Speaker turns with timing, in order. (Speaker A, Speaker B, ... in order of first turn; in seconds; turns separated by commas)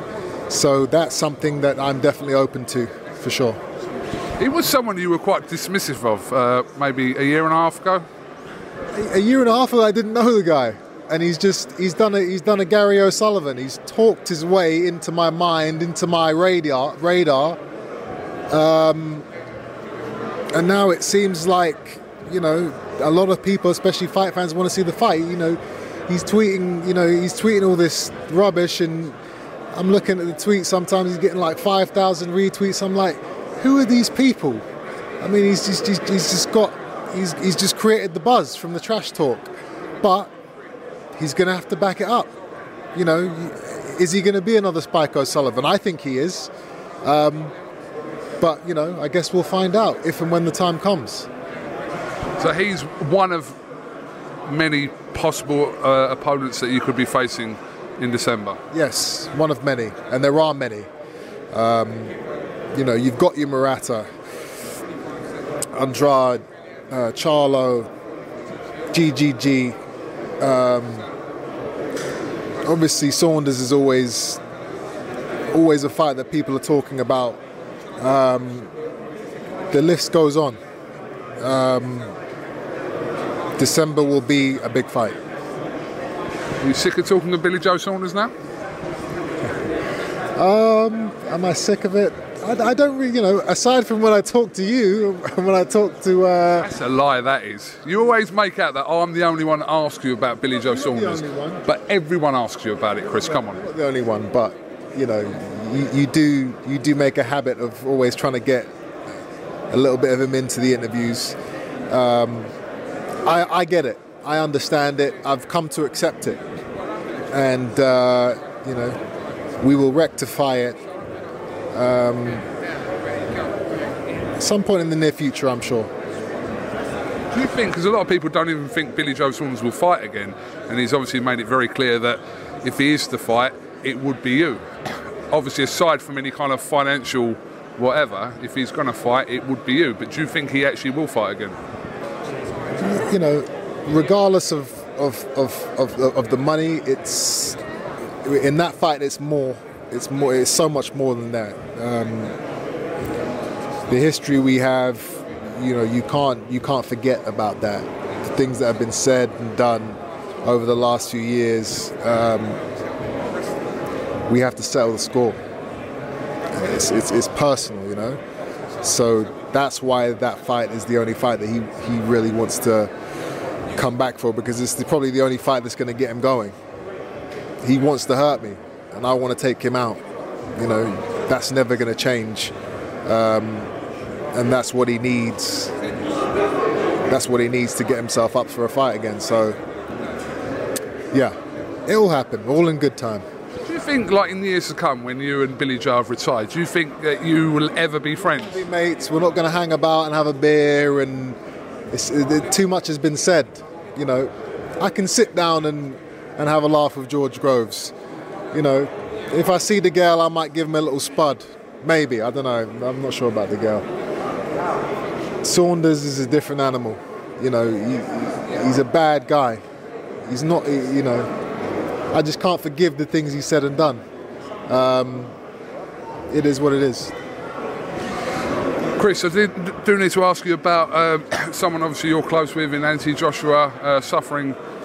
Speaker A: 0.5-3.6, Speaker B: 4.4-8.1, Speaker A: 8.9-17.6, Speaker A: 18.5-19.2, Speaker A: 20.5-29.1, Speaker A: 29.7-34.6, Speaker A: 35.2-40.3, Speaker A: 41.2-42.3, Speaker A: 42.9-46.5, Speaker A: 47.0-47.5, Speaker A: 48.4-51.3, Speaker B: 52.4-53.5, Speaker B: 54.5-58.6, Speaker A: 58.7-60.9, Speaker A: 61.5-62.1, Speaker A: 62.7-64.1, Speaker A: 65.7-67.9, Speaker A: 68.9-69.8, Speaker A: 70.4-71.1, Speaker A: 72.6-74.4, Speaker A: 75.5-77.4, Speaker A: 78.0-78.7, Speaker A: 79.7-80.6, Speaker A: 81.4-82.2, Speaker A: 83.6-85.2, Speaker B: 86.6-88.3, Speaker A: 90.3-96.7, Speaker B: 96.6-103.6, Speaker A: 100.7-101.7, Speaker A: 103.2-108.7, Speaker A: 109.7-111.4, Speaker A: 111.9-112.5, Speaker A: 113.2-116.4, Speaker A: 117.3-119.0, Speaker A: 119.6-120.8, Speaker A: 121.7-122.5, Speaker A: 124.4-125.9, Speaker B: 127.3-141.6, Speaker A: 142.8-147.6, Speaker A: 148.2-152.3, Speaker A: 153.9-162.6, Speaker A: 164.3-165.4, Speaker A: 166.5-168.2, Speaker A: 168.8-172.9, Speaker A: 173.7-176.5, Speaker A: 177.6-180.0, Speaker A: 180.6-182.5, Speaker A: 183.1-183.7, Speaker A: 184.3-185.8, Speaker A: 187.1-189.6, Speaker A: 191.9-193.2, Speaker B: 193.6-198.6, Speaker A: 198.4-201.4, Speaker A: 201.9-207.9, Speaker A: 208.5-213.8, Speaker A: 215.4-219.6, Speaker A: 220.2-221.3, Speaker A: 222.1-224.0, Speaker A: 224.7-225.3, Speaker A: 226.3-227.1, Speaker B: 228.9-234.6